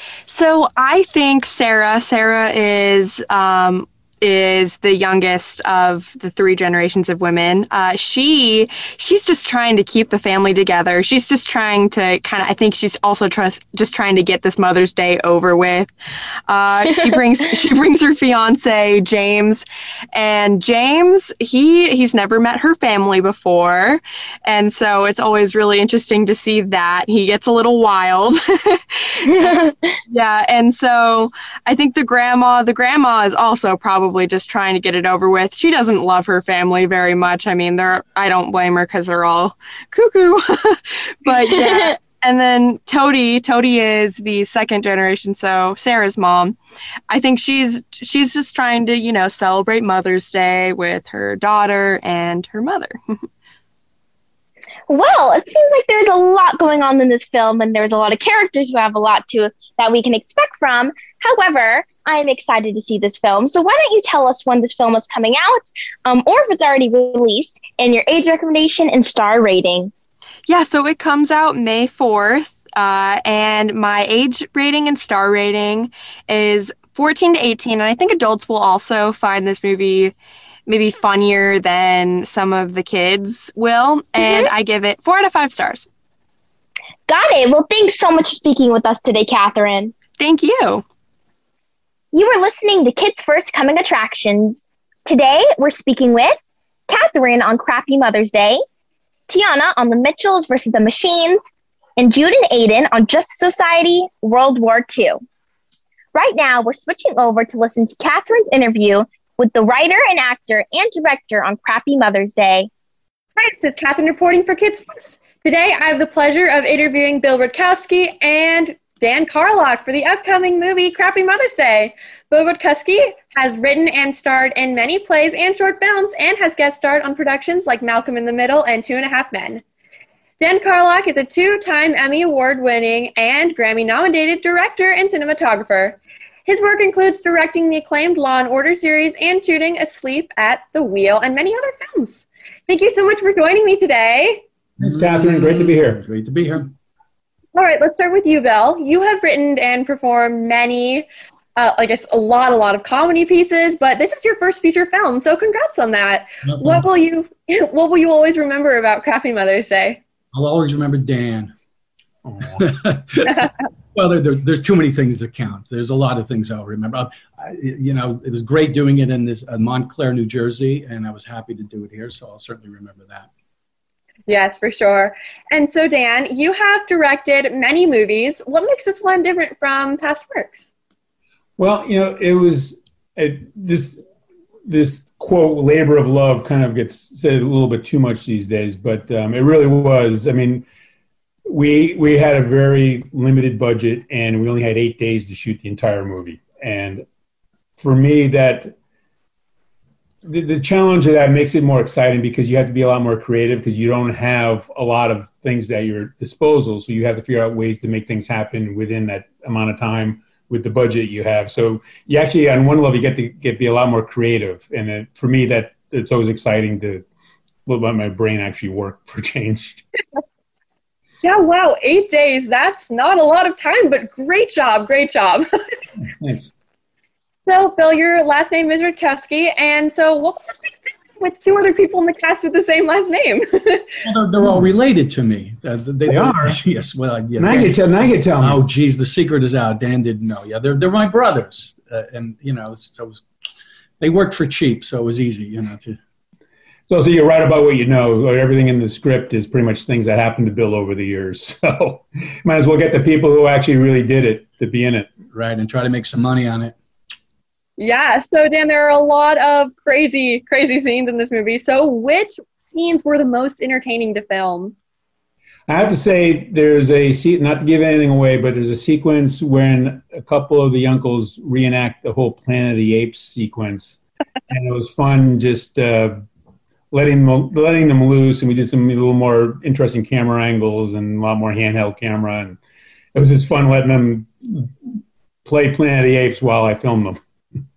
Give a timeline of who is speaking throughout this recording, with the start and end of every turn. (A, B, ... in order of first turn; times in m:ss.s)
0:00.3-0:15.9 A
0:16.5-0:29.0 A
0:29.3-0:30.0 B
0:30.1-0:46.6 A
0:41.5-0:41.9 B
0:47.1-0:53.2 A
0:54.9-1:09.9 B
1:10.5-1:20.1 A
1:20.7-1:25.9 A
1:24.2-1:24.5 B
1:27.1-1:29.9 B
1:30.2-1:30.8 A
1:32.1-1:38.6 B
1:39.3-1:41.4 B
1:42.0-1:45.2 B
1:46.2-1:52.7 B
1:53.4-2:09.6 C
2:10.4-2:24.4 C
2:24.8-2:26.7 D
2:24.8-2:26.0 E
2:27.6-2:40.0 C
2:36.4-2:36.9 D
2:40.3-2:41.5 D
2:42.3-2:42.6 E
2:42.4-2:53.3 D
2:54.3-3:00.7 C
3:01.6-3:04.0 E
3:04.7-3:10.7 E
3:11.5-3:17.0 E
3:17.8-3:18.8 E
3:20.2-3:37.0 E
3:37.7-3:39.8 E
3:41.2-3:45.4 C
3:46.2-3:46.5 E
3:47.5-3:53.9 C
3:54.0-4:03.2 D
3:56.1-3:56.6 E
3:57.4-3:58.6 E
4:04.0-4:06.0 D
4:06.9-4:15.1 E
4:15.3-4:16.8 D
4:17.8-4:24.8 C
4:25.7-4:36.2 E
4:36.9-4:42.6 E
4:43.1-4:47.2 E